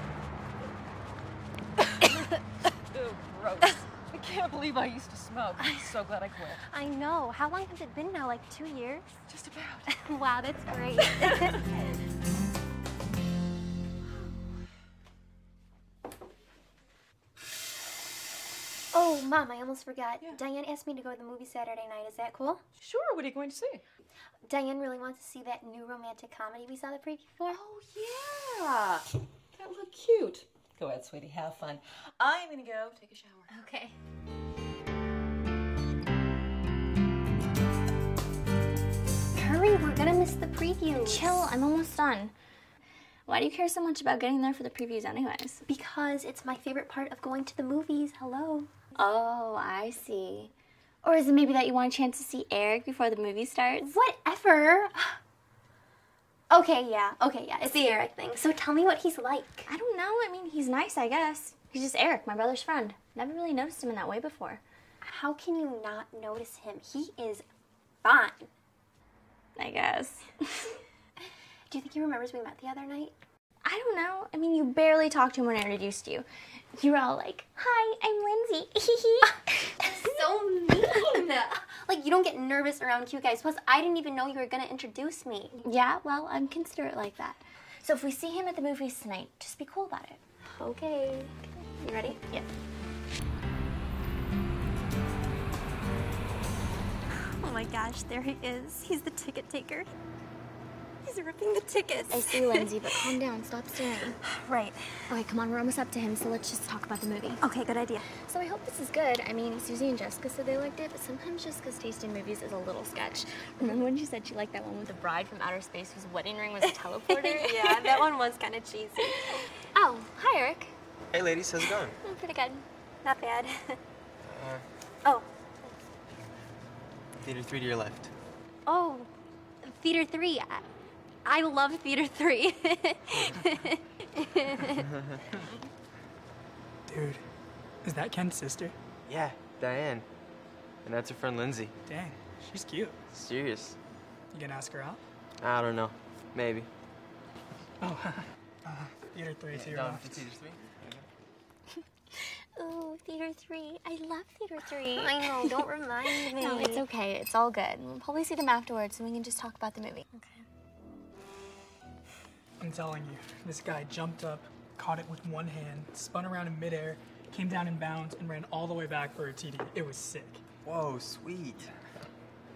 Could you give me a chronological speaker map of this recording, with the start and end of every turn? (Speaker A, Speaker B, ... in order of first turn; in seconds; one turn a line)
Speaker A: 2.1-2.3
Speaker B: 2.9-6.6
Speaker A: 5.6-6.0
Speaker A: 6.7-9.2
Speaker B: 9.3-9.9
Speaker A: 9.9-11.7
Speaker A: 18.9-22.6
Speaker B: 22.8-23.8
Speaker A: 24.5-27.6
Speaker B: 27.5-33.5
Speaker A: 33.5-34.0
Speaker A: 39.3-41.4
Speaker C: 40.9-42.3
Speaker C: 43.3-45.6
Speaker A: 45.6-48.7
Speaker C: 49.0-50.5
Speaker C: 51.0-53.9
Speaker A: 53.9-55.2
Speaker A: 56.5-59.7
Speaker C: 59.7-64.6
Speaker A: 65.0-67.4
Speaker A: 68.0-68.5
Speaker C: 69.5-70.7
Speaker A: 71.7-73.2
Speaker C: 73.6-79.4
Speaker A: 79.8-85.6
Speaker C: 85.6-90.2
Speaker A: 90.5-92.4
Speaker A: 97.2-99.9
Speaker A: 101.0-103.0
Speaker C: 102.1-104.2
Speaker A: 104.2-104.9
Speaker C: 105.1-107.4
Speaker A: 107.4-108.1
Speaker C: 108.2-118.0
Speaker A: 116.7-119.5
Speaker C: 119.7-120.7
Speaker D: 121.1-122.0
Speaker C: 122.0-122.6
Speaker A: 123.0-123.8
Speaker D: 124.2-124.6
Speaker D: 127.2-128.1
Speaker A: 128.7-129.1
Speaker A: 129.6-130.7
Speaker A: 131.2-134.9
Speaker D: 134.8-135.2
Speaker E: 136.9-137.2
Speaker E: 137.8-138.8
Speaker D: 139.1-140.1
Speaker D: 140.8-141.7
Speaker E: 141.9-143.1
Speaker D: 143.1-143.8
Speaker E: 144.3-145.0
Speaker D: 145.4-146.7
Speaker E: 147.8-150.2
Speaker D: 149.5-151.1
Speaker C: 152.6-155.6
Speaker A: 154.9-156.8
Speaker C: 156.4-160.1
Speaker A: 160.1-160.4
Speaker E: 162.6-170.4
Speaker D: 170.7-171.7